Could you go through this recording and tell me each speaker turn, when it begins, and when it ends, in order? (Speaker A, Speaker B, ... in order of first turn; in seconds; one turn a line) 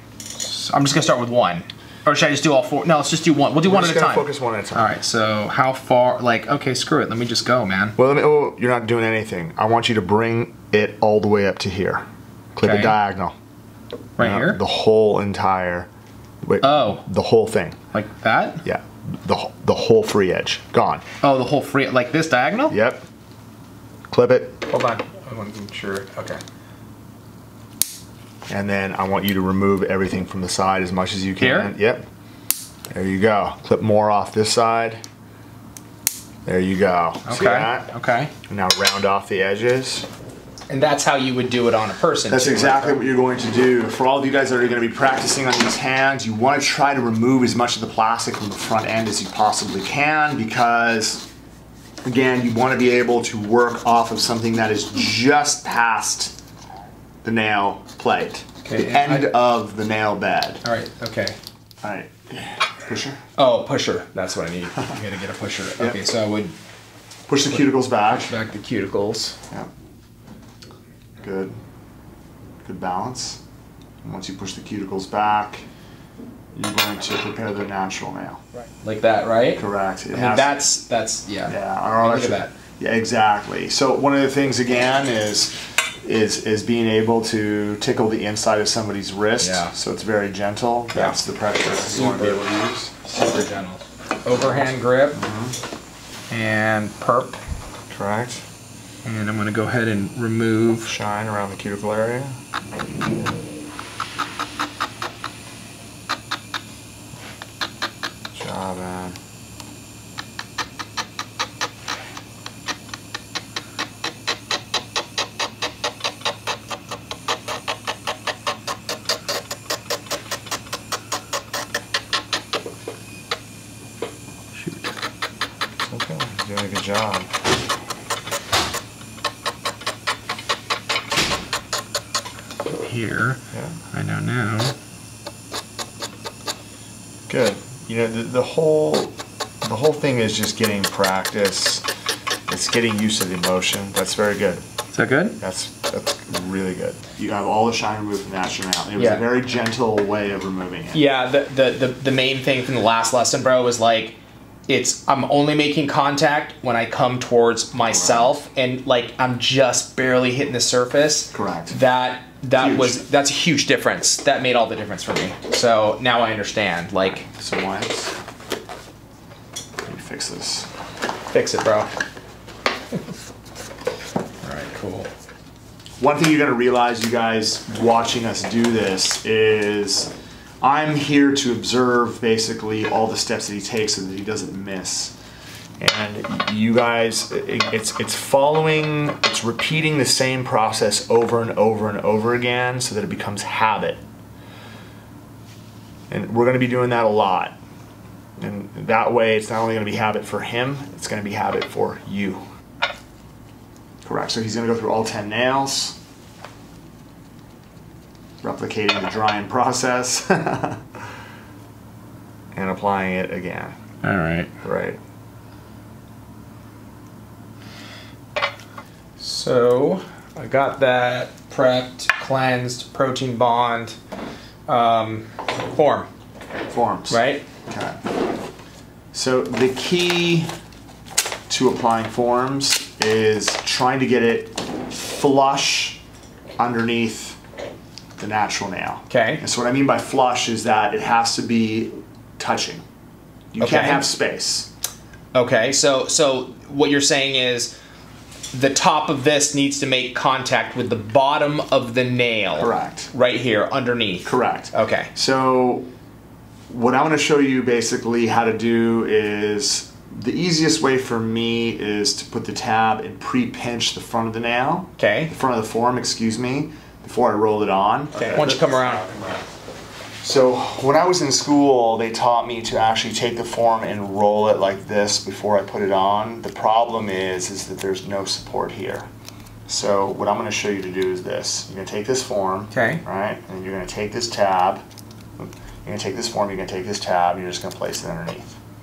Speaker A: 0.3-8.0
Speaker B: 3.6-4.9
Speaker B: 8.0-13.4
Speaker A: 12.6-12.9
Speaker A: 14.2-14.6
Speaker B: 14.2-15.9
Speaker B: 16.4-17.8
Speaker A: 16.6-17.0
Speaker A: 17.9-18.6
Speaker B: 18.6-21.1
Speaker A: 21.2-22.8
Speaker B: 22.7-23.0
Speaker B: 24.1-24.6
Speaker A: 24.7-26.4
Speaker B: 28.5-32.1
Speaker A: 31.4-31.7
Speaker B: 32.9-35.0
Speaker B: 36.5-37.9
Speaker A: 37.3-38.3
Speaker B: 38.4-40.1
Speaker A: 40.7-43.0
Speaker B: 42.3-51.3
Speaker B: 52.0-56.4
Speaker B: 57.2-60.6
Speaker A: 58.6-59.3
Speaker A: 60.6-61.4
Speaker B: 61.8-63.2
Speaker A: 63.4-66.5
Speaker B: 67.3-68.3
Speaker A: 67.5-69.4
Speaker B: 71.2-71.6
Speaker B: 72.6-73.4
Speaker B: 74.0-75.7
Speaker B: 76.5-78.4
Speaker A: 78.8-82.5
Speaker B: 79.6-80.6
Speaker B: 81.5-93.0
Speaker A: 89.4-89.7
Speaker A: 90.9-95.2
Speaker B: 94.4-95.6
Speaker A: 96.3-97.4
Speaker B: 97.9-98.5
Speaker A: 99.0-100.9
Speaker B: 100.8-102.4
Speaker B: 108.3-109.2
Speaker A: 124.6-124.9
Speaker B: 125.8-127.3
Speaker A: 132.7-134.8
Speaker B: 137.3-141.9
Speaker B: 142.5-144.6
Speaker A: 144.9-145.4
Speaker B: 145.4-151.0
Speaker A: 149.0-149.2
Speaker A: 150.9-154.2
Speaker A: 154.7-167.3
Speaker B: 157.9-158.3
Speaker B: 161.3-161.8
Speaker B: 162.6-163.0
Speaker B: 167.3-168.2
Speaker B: 169.8-170.7
Speaker A: 171.3-171.9
Speaker A: 174.4-175.1
Speaker B: 176.0-185.2
Speaker B: 185.8-194.0
Speaker B: 196.1-197.6
Speaker B: 198.4-202.4
Speaker B: 204.0-206.0
Speaker B: 208.4-211.0
Speaker B: 212.5-213.8
Speaker A: 214.0-214.5
Speaker B: 214.6-215.0
Speaker A: 219.2-224.0
Speaker A: 224.7-226.1
Speaker B: 226.7-228.0
Speaker A: 227.1-227.4
Speaker B: 229.1-230.5
Speaker B: 231.5-236.0
Speaker B: 236.6-237.4
Speaker B: 238.2-242.8
Speaker A: 239.1-239.4
Speaker B: 243.5-244.7
Speaker A: 243.6-244.1
Speaker A: 245.3-247.8
Speaker A: 248.5-255.1
Speaker B: 252.5-253.1
Speaker B: 254.2-255.9
Speaker B: 256.7-269.4
Speaker A: 265.0-265.3
Speaker A: 268.2-269.1
Speaker B: 270.2-279.1
Speaker B: 279.7-284.8
Speaker A: 282.7-283.0
Speaker B: 285.4-288.5